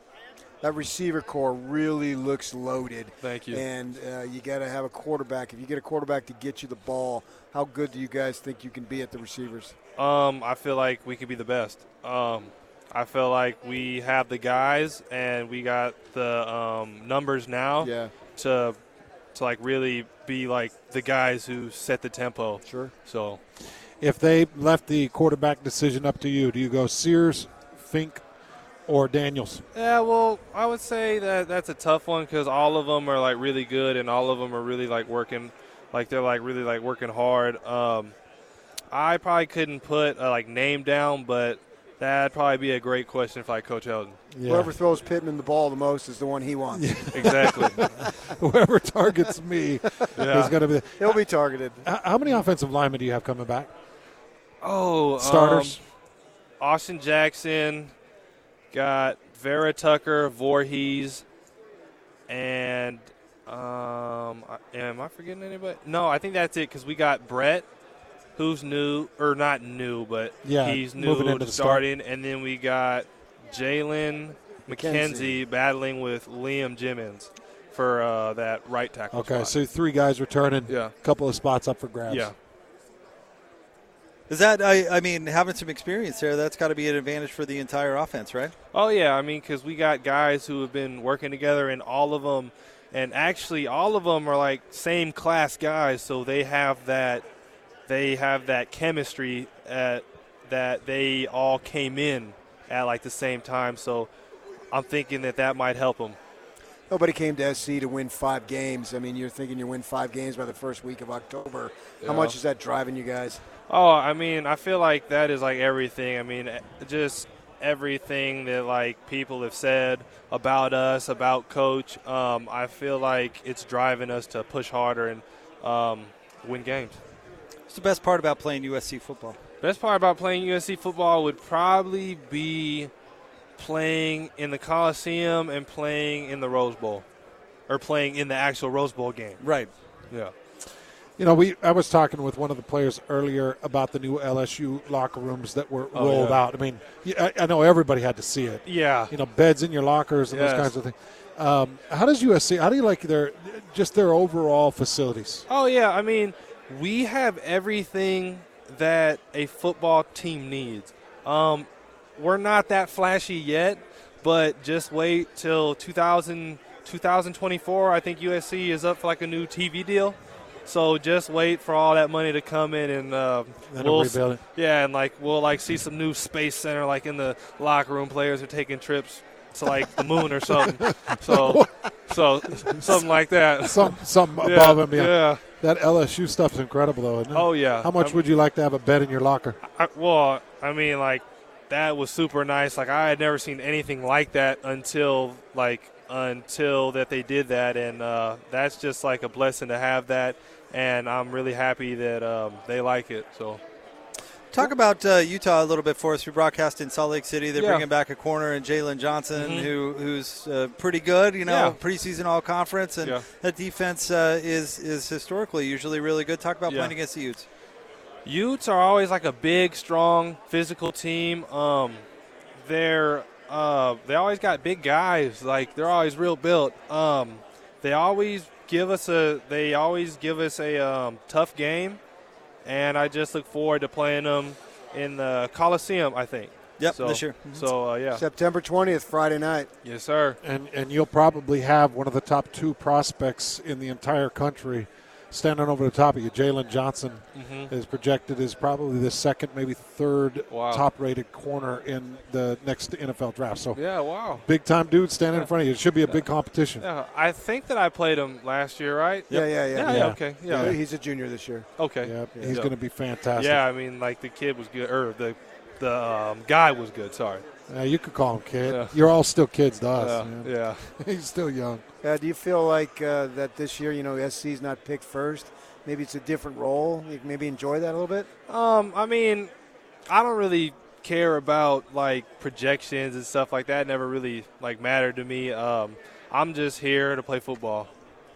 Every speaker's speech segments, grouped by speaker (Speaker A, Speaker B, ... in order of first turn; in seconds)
Speaker A: 0.6-9.7, 17.8-18.1, 22.6-22.9, 44.5-47.0, 51.0-51.9, 74.7-75.4, 106.9-113.4, 237.5-239.7, 259.3-261.7, 262.3-262.6, 272.0-278.3
Speaker B: 3.2-3.6, 10.0-18.8, 19.3-23.4, 29.7-38.1, 38.9-44.2, 47.1-47.8, 50.1-50.5, 54.6-55.8, 56.6-57.9, 58.7-61.2, 62.3-67.7, 68.3-79.5, 80.7-80.9, 82.1-82.3, 88.7-97.2, 97.9-104.1, 104.7-106.2, 112.0-112.4, 113.7-127.0, 129.6-132.9, 133.6-137.0, 137.7-139.4, 145.9-146.4, 148.6-149.1, 150.3-150.7, 155.5-185.4, 187.3-188.2, 189.6-203.6, 207.5-207.8, 209.3-209.7, 211.4-211.8, 216.7-216.9, 218.2-222.0, 222.6-232.0, 232.6-238.2, 239.8-240.4, 247.3-247.7, 250.5-250.8, 253.7-254.4, 256.8-260.8, 261.8-262.7, 263.3-267.4, 268.6-268.9, 270.0-270.9, 278.5-279.5, 280.1-287.9
Speaker C: 24.0-28.2, 28.9-29.6, 44.3-44.7, 46.7-51.2, 51.8-53.7, 55.2-55.8, 70.4-71.8, 79.1-82.3, 141.2-155.5, 173.7-174.4, 180.5-183.0, 183.6-189.6, 240.4-256.8, 259.8-260.8, 262.0-263.6, 267.7-271.8
Speaker D: 84.3-88.5, 127.7-129.4, 139.4-139.7, 204.5-217.5, 236.8-237.5